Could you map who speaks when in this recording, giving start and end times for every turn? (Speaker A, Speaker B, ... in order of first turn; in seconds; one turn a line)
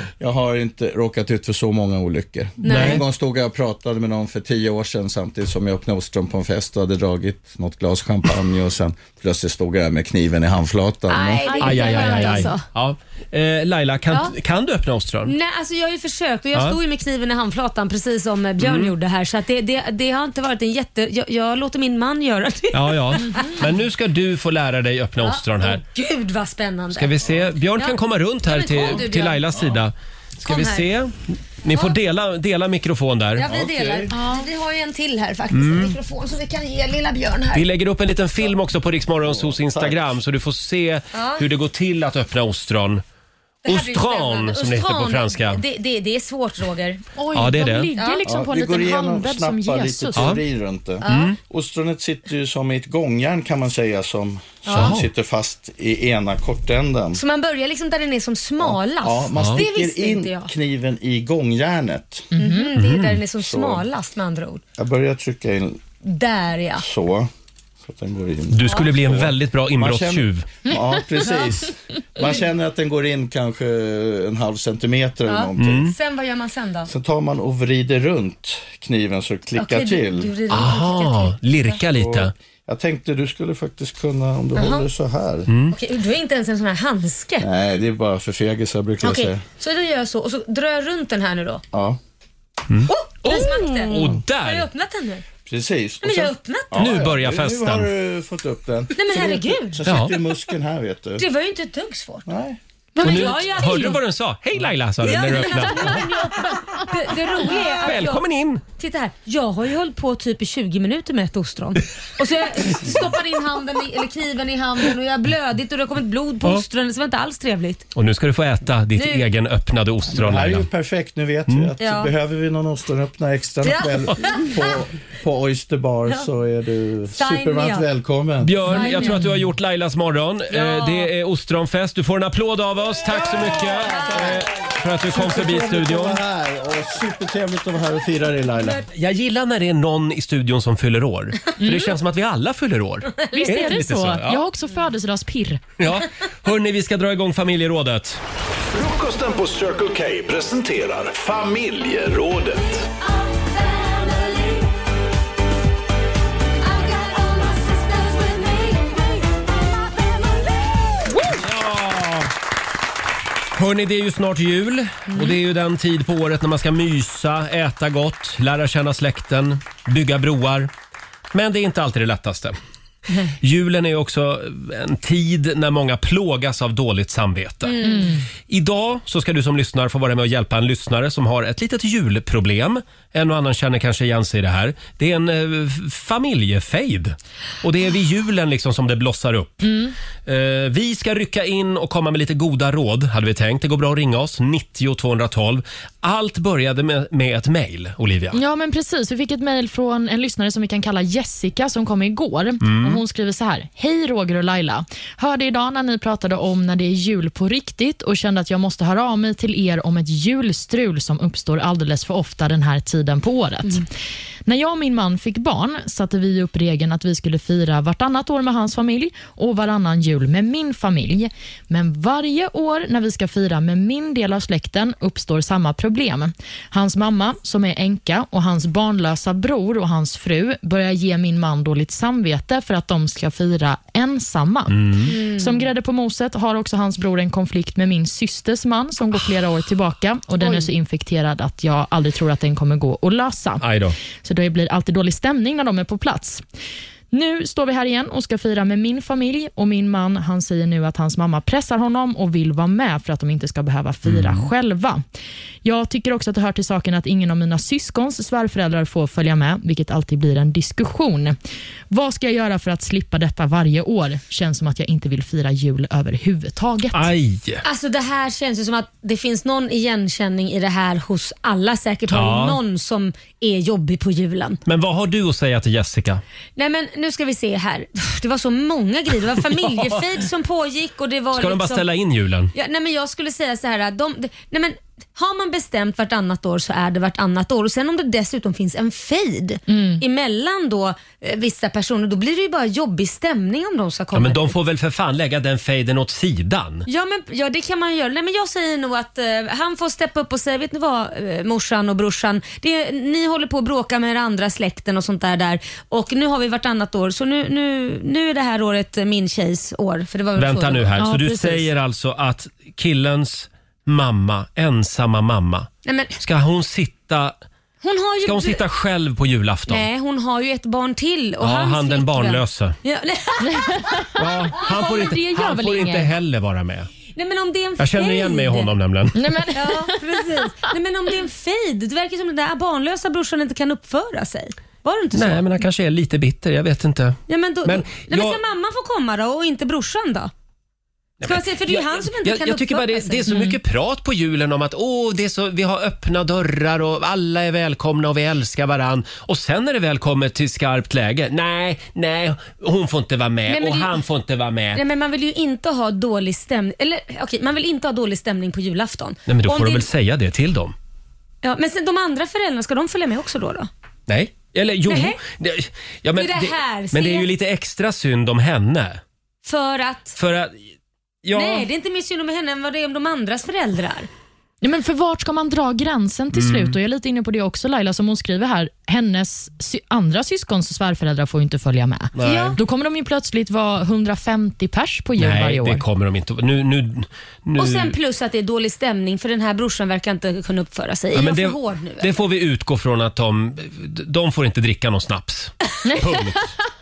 Speaker A: 0.2-11.5
Speaker B: 2.6-3.0
Speaker C: 2.7-3.0
Speaker B: 11.1-12.7
Speaker D: 11.4-12.5
Speaker C: 11.6-15.3
Speaker B: 14.1-14.3
Speaker B: 15.2-23.6
Speaker C: 18.6-18.9
Speaker C: 22.7-25.8
Speaker D: 23.3-23.6
Speaker B: 25.2-29.5
Speaker C: 26.9-33.5
Speaker A: 29.5-29.8
Speaker B: 30.4-30.9
Speaker B: 31.7-31.9
Speaker B: 33.4-37.7
Speaker A: 33.4-34.2
Speaker D: 34.1-34.5
Speaker C: 35.5-36.0
Speaker C: 37.5-43.0
Speaker A: 39.2-40.2
Speaker B: 41.1-41.5
Speaker B: 43.6-47.0
Speaker C: 43.7-45.6
Speaker D: 47.2-50.4
Speaker C: 47.3-47.9
Speaker B: 48.0-48.2
Speaker A: 48.2-57.2
Speaker C: 50.1-50.4
Speaker B: 51.0-51.4
Speaker C: 51.1-51.4
Speaker B: 54.6-55.0
Speaker C: 54.7-55.1
Speaker B: 57.1-60.5
Speaker A: 58.6-62.3
Speaker C: 59.4-59.6
Speaker D: 62.3-62.7
Speaker B: 62.4-64.6
Speaker C: 62.8-63.2
Speaker A: 63.3-63.9
Speaker A: 64.8-65.8
Speaker B: 66.0-66.9
Speaker A: 66.8-67.3
Speaker A: 67.8-75.9
Speaker C: 68.5-70.5
Speaker D: 70.7-71.5
Speaker B: 75.3-76.9
Speaker C: 75.6-75.9
Speaker A: 76.9-80.3
Speaker B: 79.6-81.5
Speaker C: 80.5-82.3
Speaker A: 81.9-85.5
Speaker B: 84.5-84.9
Speaker C: 85.5-85.8
Speaker B: 85.7-87.5
Speaker A: 87.4-89.4
Speaker B: 89.0-91.6
Speaker A: 91.7-92.0
Speaker C: 92.7-94.7
Speaker B: 92.9-95.3
Speaker A: 95.5-101.3
Speaker B: 96.0-97.0
Speaker C: 96.8-97.9
Speaker B: 98.9-99.8
Speaker C: 99.9-100.2
Speaker B: 101.2-102.3
Speaker A: 102.3-102.6
Speaker B: 103.0-104.0
Speaker C: 103.0-106.0
Speaker B: 105.0-108.2
Speaker C: 107.8-108.6
Speaker B: 108.8-117.9
Speaker C: 118.0-120.7
Speaker B: 119.0-119.3
Speaker A: 120.1-128.6
Speaker C: 121.5-121.7
Speaker B: 121.8-122.1
Speaker B: 123.6-124.8
Speaker B: 127.1-127.9
Speaker C: 128.4-136.2
Speaker B: 128.7-129.2
Speaker D: 128.7-129.3
Speaker B: 130.5-131.1
Speaker B: 133.9-134.2
Speaker A: 134.1-134.5
Speaker A: 135.1-138.8
Speaker C: 138.9-144.4
Speaker D: 141.6-141.9
Speaker D: 143.3-145.6
Speaker C: 145.8-148.2
Speaker E: 148.7-152.8
Speaker B: 153.3-154.6
Speaker B: 156.7-159.2
Speaker D: 161.1-161.4
Speaker C: 161.3-162.3
Speaker C: 163.6-170.7
Speaker C: 171.3-172.6
Speaker C: 173.4-177.9
Speaker B: 177.7-178.1
Speaker D: 177.8-178.2
Speaker C: 178.5-189.7
Speaker D: 189.6-189.9
Speaker C: 190.3-198.4
Speaker D: 198.3-213.9
Speaker C: 202.6-203.0
Speaker D: 214.5-243.7
Speaker C: 234.7-235.1
Speaker B: 235.1-235.7
Speaker B: 240.4-240.7
Speaker C: 243.6-244.0
Speaker D: 244.2-246.4
Speaker D: 247.1-255.0
Speaker C: 254.1-254.5
Speaker D: 255.6-261.4
Speaker D: 261.9-267.1
Speaker C: 266.9-267.6
Speaker B: 267.6-274.6
Speaker C: 272.1-272.6
Speaker C: 274.7-276.2
Speaker B: 276.6-281.9
Speaker C: 279.5-280.1
Speaker C: 281.3-282.5
Speaker B: 282.5-294.6
Speaker D: 289.7-290.0
Speaker C: 294.1-296.9
Speaker B: 296.9-311.1
Speaker C: 310.4-317.4
Speaker D: 311.0-311.6
Speaker B: 315.9-316.2
Speaker B: 317.8-318.6
Speaker C: 318.2-319.9
Speaker B: 319.7-324.0
Speaker C: 321.4-322.8
Speaker D: 323.4-326.1
Speaker C: 324.2-326.9
Speaker B: 327.1-328.7
Speaker C: 327.8-329.3
Speaker D: 329.1-330.2
Speaker B: 329.5-335.5
Speaker C: 335.1-338.4
Speaker B: 337.3-340.3
Speaker C: 341.2-354.8
Speaker B: 341.2-343.5
Speaker D: 343.3-343.6
Speaker B: 353.5-354.0
Speaker B: 354.8-359.9
Speaker C: 359.3-360.8
Speaker B: 361.4-363.7
Speaker C: 364.1-369.0
Speaker B: 364.9-365.2
Speaker B: 366.1-367.3
Speaker B: 369.4-370.2
Speaker C: 370.2-370.6
Speaker C: 371.2-371.7
Speaker B: 371.3-374.1
Speaker D: 374.6-385.8
Speaker C: 376.3-376.8
Speaker C: 382.1-382.6
Speaker B: 382.2-382.6
Speaker C: 385.2-387.9
Speaker B: 387.6-392.2
Speaker C: 391.1-396.5
Speaker D: 395.9-396.2